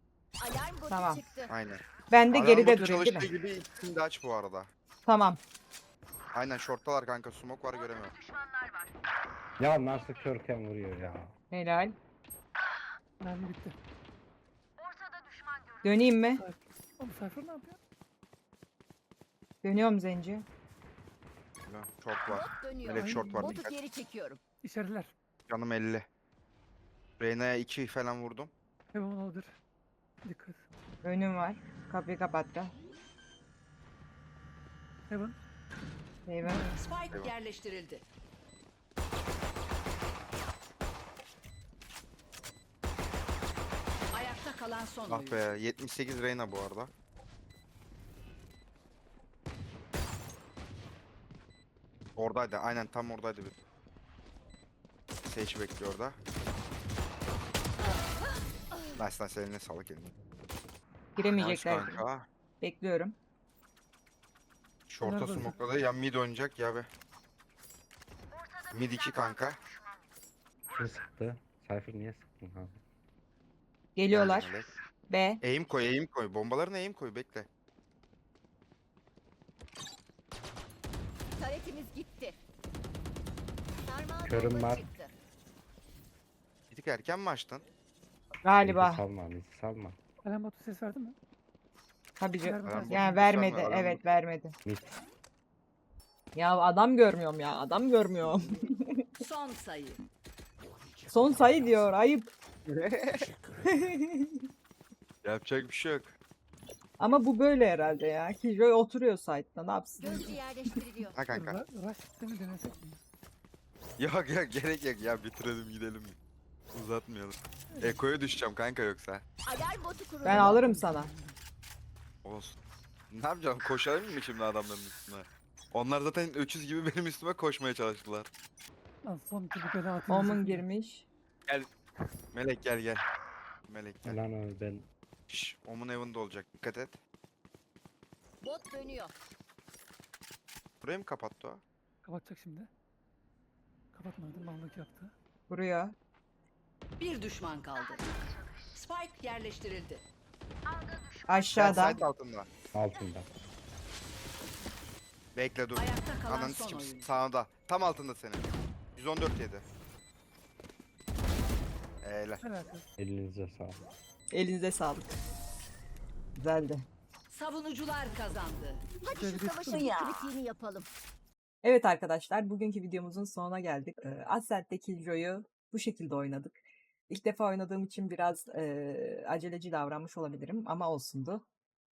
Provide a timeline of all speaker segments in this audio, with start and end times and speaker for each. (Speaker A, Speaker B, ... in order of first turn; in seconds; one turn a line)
Speaker A: 0.4-1.5
Speaker B: 0.9-1.2
Speaker C: 1.5-4.7
Speaker B: 2.1-3.3
Speaker B: 5.0-5.4
Speaker C: 6.3-8.2
Speaker D: 9.6-11.3
Speaker B: 11.5-11.9
Speaker E: 13.2-13.8
Speaker B: 15.8-16.4
Speaker E: 16.4-17.8
Speaker B: 19.6-20.4
Speaker C: 21.6-23.7
Speaker A: 22.2-24.4
Speaker E: 23.0-23.6
Speaker E: 24.6-25.1
Speaker C: 25.5-26.1
Speaker C: 27.2-28.5
Speaker E: 28.9-29.6
Speaker E: 30.2-30.6
Speaker B: 31.0-32.7
Speaker E: 35.1-35.4
Speaker B: 36.2-36.8
Speaker E: 36.4-36.8
Speaker F: 36.8-38.0
Speaker F: 44.1-45.5
Speaker C: 45.1-46.9
Speaker C: 52.1-53.6
Speaker C: 55.2-56.2
Speaker A: 58.2-59.0
Speaker C: 59.0-60.1
Speaker B: 61.1-62.0
Speaker C: 61.3-62.3
Speaker B: 62.6-63.1
Speaker C: 64.9-66.9
Speaker E: 65.0-65.6
Speaker C: 68.7-69.6
Speaker D: 70.7-72.8
Speaker B: 74.0-74.5
Speaker C: 74.1-74.8
Speaker B: 75.1-75.4
Speaker C: 75.4-77.5
Speaker A: 81.4-82.3
Speaker A: 83.8-85.1
Speaker D: 84.2-84.9
Speaker C: 86.7-87.6
Speaker B: 88.4-89.0
Speaker D: 88.6-90.0
Speaker E: 90.2-91.2
Speaker B: 92.2-94.5
Speaker E: 92.4-93.3
Speaker C: 92.6-94.1
Speaker B: 96.3-99.1
Speaker F: 99.2-100.0
Speaker B: 101.1-102.3
Speaker C: 102.7-103.3
Speaker B: 103.6-104.4
Speaker C: 105.2-106.2
Speaker B: 107.0-110.4
Speaker A: 110.0-111.2
Speaker C: 111.1-111.6
Speaker E: 111.3-113.0
Speaker C: 114.0-116.2
Speaker C: 116.7-119.2
Speaker E: 117.7-118.0
Speaker A: 119.5-120.6
Speaker B: 120.2-121.1
Speaker E: 120.2-121.3
Speaker C: 122.2-122.5
Speaker C: 123.1-128.3
Speaker E: 129.0-130.6
Speaker B: 130.1-131.1
Speaker C: 132.3-133.0
Speaker C: 133.7-134.2
Speaker D: 134.0-134.8
Speaker C: 135.3-137.0
Speaker A: 138.4-139.1
Speaker C: 140.8-141.6
Speaker E: 142.0-142.7
Speaker E: 143.9-145.1
Speaker B: 145.5-145.9
Speaker F: 147.0-148.1
Speaker F: 148.7-150.0
Speaker B: 151.3-152.0
Speaker C: 151.5-152.5
Speaker D: 152.7-153.3
Speaker C: 155.3-159.6
Speaker F: 155.7-157.1
Speaker C: 162.0-162.4
Speaker E: 162.4-162.8
Speaker D: 163.0-163.8
Speaker B: 164.3-165.1
Speaker B: 166.3-166.8
Speaker F: 167.3-168.8
Speaker A: 169.0-170.9
Speaker E: 169.2-169.9
Speaker B: 171.6-176.6
Speaker B: 177.1-181.4